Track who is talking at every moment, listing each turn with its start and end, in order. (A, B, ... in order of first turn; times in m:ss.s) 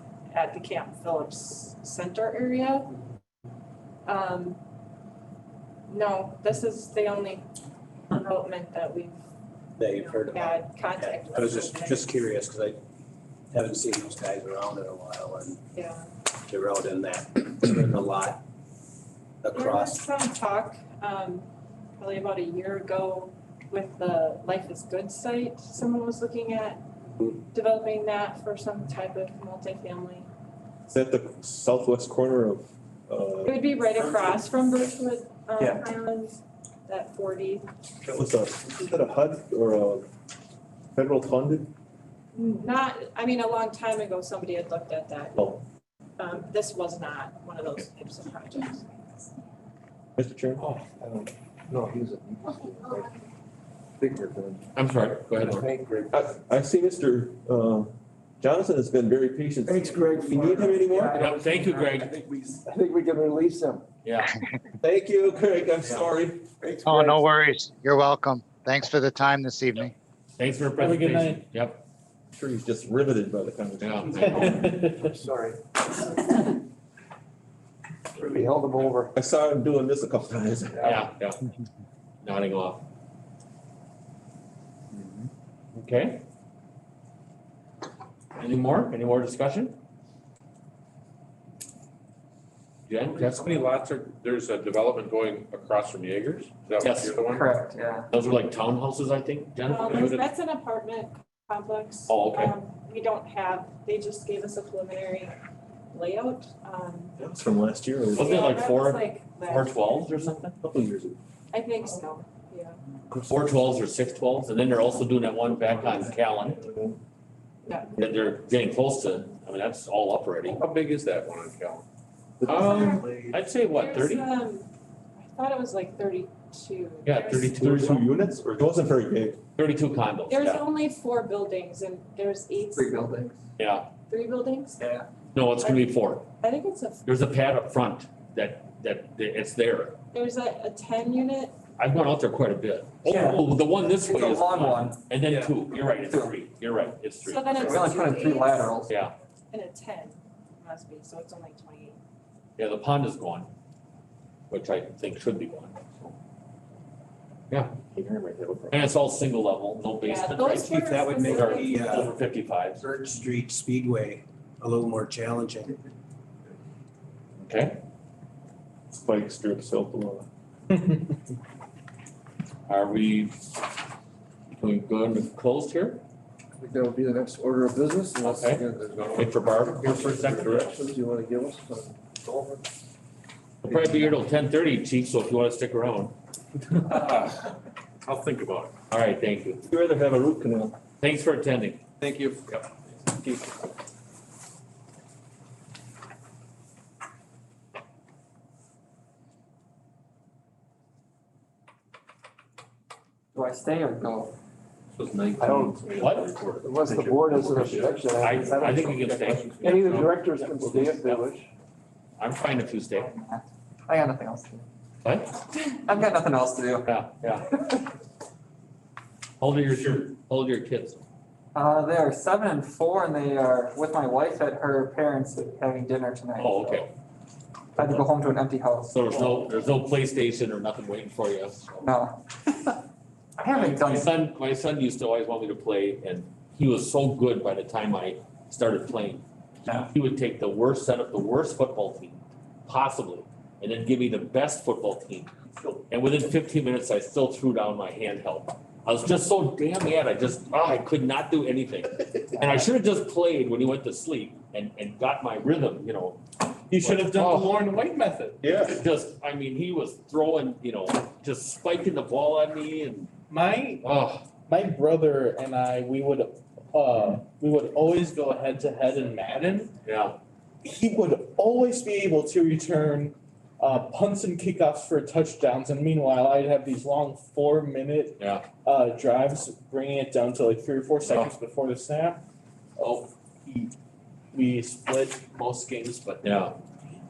0:00.3-0:02.9 A
0:04.1-0:04.6 A
0:05.9-0:07.5 A
0:08.1-0:09.2 A
0:09.8-0:12.8 B
0:09.9-0:12.1 A
0:13.5-0:15.6 B
0:15.8-0:16.1 A
0:16.5-0:18.4 B
0:19.4-0:20.0 B
0:19.5-0:21.5 A
0:22.0-0:30.3 A
0:30.9-0:33.6 C
0:33.4-0:37.7 A
0:35.6-0:35.8 D
0:38.0-0:40.1 C
0:41.0-0:41.7 C
0:42.3-0:45.4 A
0:45.4-0:45.6 C
0:46.2-0:48.9 A
0:50.2-0:50.6 C
0:50.6-0:53.1 E
0:54.0-0:54.7 E
0:54.8-0:55.7 F
0:55.4-0:56.2 E
0:56.1-1:01.2 C
0:59.7-1:03.8 E
1:00.9-1:01.9 D
1:01.1-1:02.1 F
1:04.0-1:04.4 F
1:04.8-1:06.4 C
1:06.6-1:07.2 E
1:06.8-1:09.9 G
1:10.4-1:11.8 F
1:10.8-1:11.4 H
1:12.4-1:14.3 C
1:13.8-1:14.4 F
1:14.2-1:15.1 H
1:14.3-1:15.6 E
1:18.2-1:19.1 E
1:19.2-1:21.0 C
1:20.8-1:21.0 E
1:20.8-1:21.4 F
1:22.2-1:22.8 F
1:25.8-1:26.2 F
1:28.4-1:29.8 F
1:32.9-1:33.6 F
1:33.1-1:37.6 I
1:36.8-1:37.2 F
1:37.2-1:38.1 D
1:38.1-1:40.2 F
1:39.7-1:45.3 A
1:39.9-1:40.2 I
1:42.1-1:42.6 F
1:45.9-1:47.2 A
1:47.2-1:48.3 C
1:48.1-1:50.6 F
1:48.2-1:49.9 A
1:50.6-1:51.2 C
1:51.5-1:52.8 A
1:53.1-1:53.5 C
1:53.3-1:56.6 F
1:57.7-1:57.9 A
1:58.0-2:00.6 F
2:00.5-2:01.8 I
2:02.4-2:02.8 I
2:02.4-2:03.2 E
2:02.6-2:07.7 A
2:03.3-2:04.3 F
2:07.0-2:08.0 F
2:07.5-2:09.4 C
2:09.6-2:10.7 F
2:10.3-2:13.1 A
2:12.7-2:13.4 D
2:13.6-2:13.9 F
2:14.1-2:14.8 A
2:14.8-2:15.1 D
2:15.3-2:16.3 F
2:16.4-2:17.0 A
2:17.0-2:20.0 F
2:20.1-2:21.6 A
2:21.8-2:27.8 F
2:23.0-2:25.0 D
2:26.1-2:26.4 D
2:27.2-2:28.7 A
2:27.6-2:28.9 D
2:29.5-2:32.0 A
2:32.6-2:33.5 F
2:34.5-2:36.2 F
2:37.5-2:37.9 F
2:38.7-2:42.8 F
2:40.0-2:42.1 A
2:40.6-2:42.1 B
2:42.8-2:45.8 B
2:47.4-2:47.8 F
2:48.9-2:50.3 C
2:52.7-2:53.7 F
2:54.6-2:56.0 F
2:56.6-3:02.6 E
2:58.2-3:00.8 F
3:03.6-3:06.2 F
3:03.7-3:04.0 E
3:07.0-3:07.4 I
3:08.0-3:08.8 I
3:08.9-3:09.6 F
3:09.7-3:10.8 C
3:11.0-3:11.8 F
3:23.3-3:24.4 D
3:25.0-3:26.7 F
3:25.4-3:31.5 E
3:27.3-3:31.1 F
3:29.0-3:30.2 I
3:32.2-3:33.1 F
3:33.0-3:34.6 D
3:35.0-3:35.4 F
3:35.7-3:36.9 D
3:36.8-3:37.5 F
3:39.4-3:41.0 F
3:41.6-3:46.9 D
3:46.4-3:46.9 F
3:47.8-3:49.1 D
3:48.9-3:51.9 F
3:51.8-3:52.8 D
3:53.4-3:54.2 D
3:53.5-3:59.2 F
3:59.7-3:59.9 D
3:59.8-4:16.2 F
4:16.7-4:18.6 H
4:16.8-4:17.6 F
4:18.4-4:18.8 C
4:18.7-4:23.1 F
4:23.3-4:23.8 H
4:23.8-4:24.3 F
4:24.5-4:29.7 H
4:29.8-4:30.2 F
4:30.6-4:42.2 H
4:38.2-4:38.4 F
4:42.8-4:43.7 H
4:44.3-4:46.5 H
4:46.2-4:46.6 F